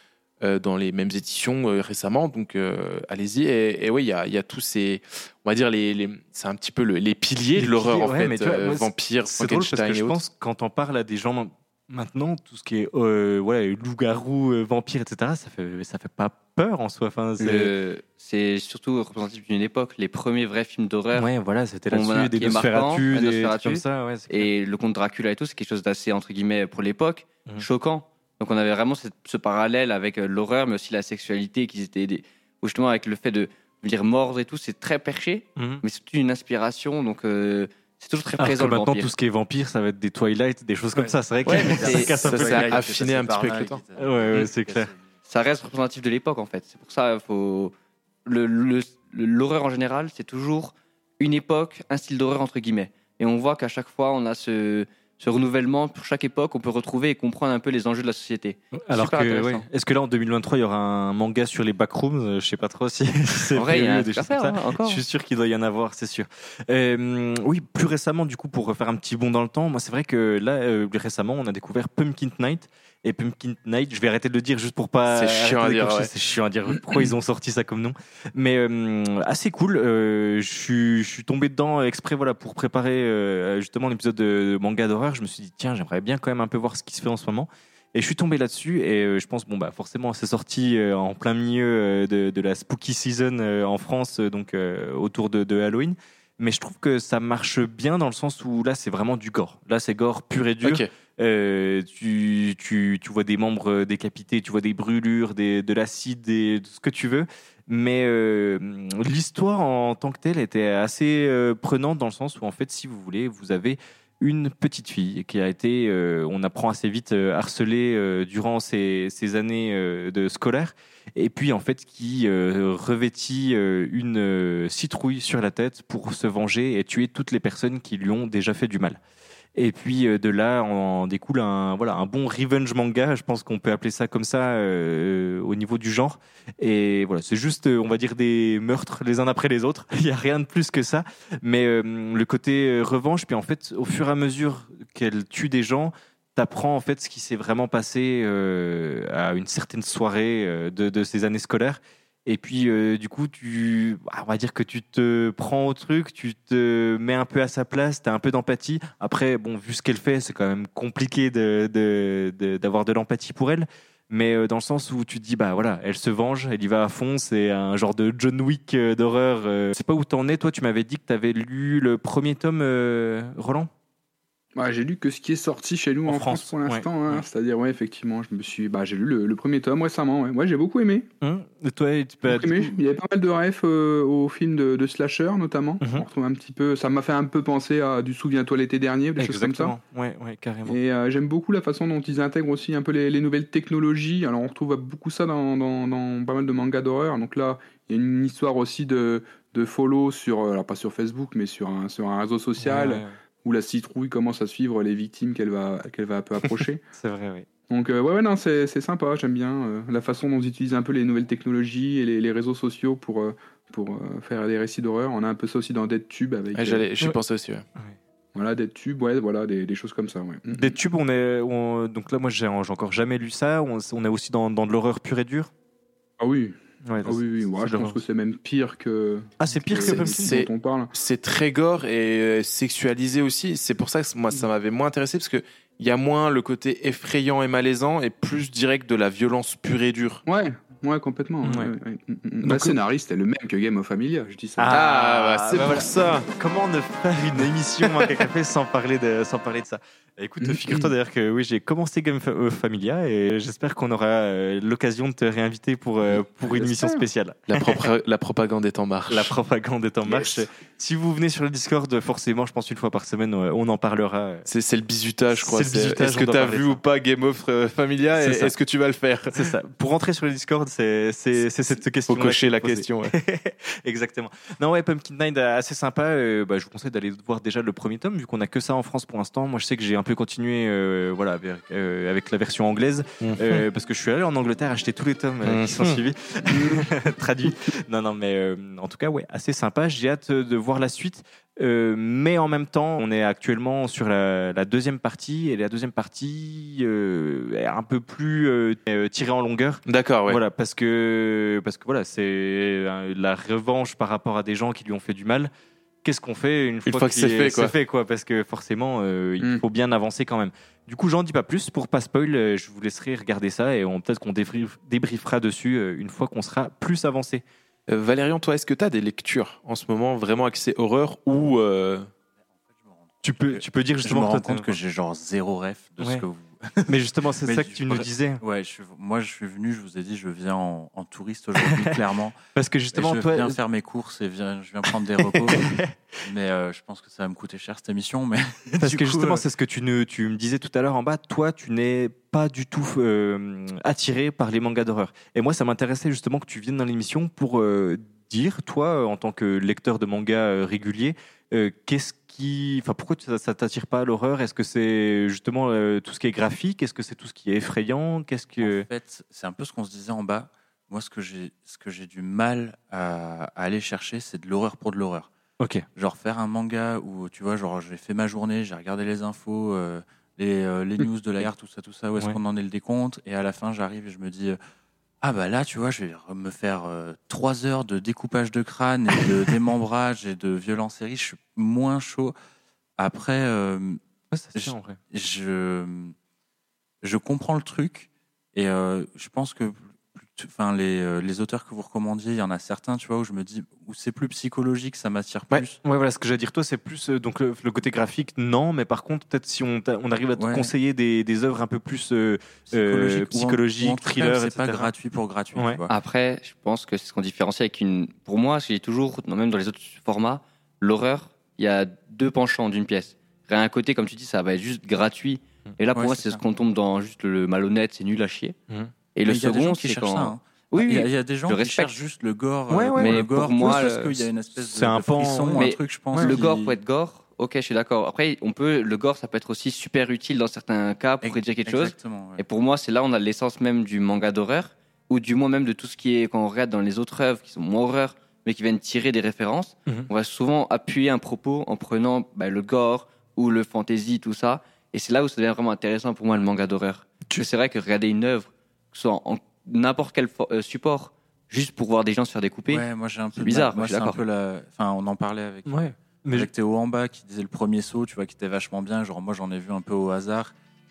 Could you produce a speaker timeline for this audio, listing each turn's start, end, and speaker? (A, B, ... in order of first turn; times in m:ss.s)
0:00.4-0:10.2 A
0:07.6-0:17.7 B
0:17.4-0:21.3 C
0:21.1-0:24.5 B
0:21.9-0:39.1 C
0:35.6-0:35.8 B
0:38.4-0:42.8 B
0:41.0-0:45.0 D
0:41.4-0:43.8 A
0:41.6-0:42.5 C
0:44.0-0:44.9 B
0:45.3-0:47.7 C
0:48.2-0:59.6 C
0:58.9-2:09.0 B
1:03.6-1:05.0 C
1:15.1-1:16.1 A
1:40.6-1:40.9 A
2:09.6-2:53.7 B
2:54.6-3:01.0 E
2:56.1-2:57.2 B
3:01.2-3:02.7 B
3:02.3-3:09.7 E
3:05.8-3:06.0 B
3:09.2-3:10.8 B
3:10.6-3:26.8 E
3:22.6-3:23.1 B
3:26.4-3:27.4 B
3:27.7-3:36.8 E
3:36.5-3:37.6 A
3:38.3-3:40.8 E
3:40.6-3:45.5 B
3:46.2-3:50.9 E
3:46.8-3:48.0 B
3:49.4-3:50.4 B
3:49.8-4:00.2 A
4:00.2-4:04.7 E
4:01.4-4:01.7 B
4:02.4-4:02.8 B
4:04.6-4:17.8 B
4:04.7-4:06.3 A
4:10.4-4:10.9 E
4:16.1-4:17.0 A
4:17.5-4:19.4 A
4:19.1-4:24.5 B
4:20.0-4:20.4 A
4:24.4-4:29.5 A
4:25.3-4:26.8 B
4:28.2-4:28.5 B
4:29.3-5:05.5 B
4:32.0-4:33.1 A
4:43.2-4:43.6 A
4:45.4-4:46.0 A
4:46.4-4:46.8 E
4:59.8-5:00.4 A
5:06.0-5:17.4 B
5:06.8-5:07.7 A
5:17.9-5:22.1 A
5:22.8-5:32.4 D
5:23.2-5:24.8 B
5:26.0-5:26.2 B
5:26.9-5:28.4 B
5:31.6-5:32.0 B
5:32.6-5:33.6 B
5:32.9-5:39.4 D
5:35.2-5:35.9 B
5:38.8-5:58.9 B
5:58.6-6:05.3 D
6:05.6-6:05.8 B
6:05.9-6:14.6 D
6:15.2-6:22.3 D
6:23.0-6:24.0 D
6:24.3-6:25.0 B
6:24.5-6:26.1 D
6:27.0-6:35.8 D
6:35.8-6:44.9 B
6:40.4-6:40.7 D
6:42.7-6:45.9 D
6:45.5-6:45.8 B
6:45.9-6:58.6 C
6:55.9-6:56.4 D
6:59.1-7:01.9 C
6:59.2-7:06.8 D
7:02.7-7:06.4 B
7:03.0-7:04.1 C
7:05.6-7:34.2 C
7:11.2-7:12.4 D
7:32.7-7:40.5 D
7:35.6-7:36.5 B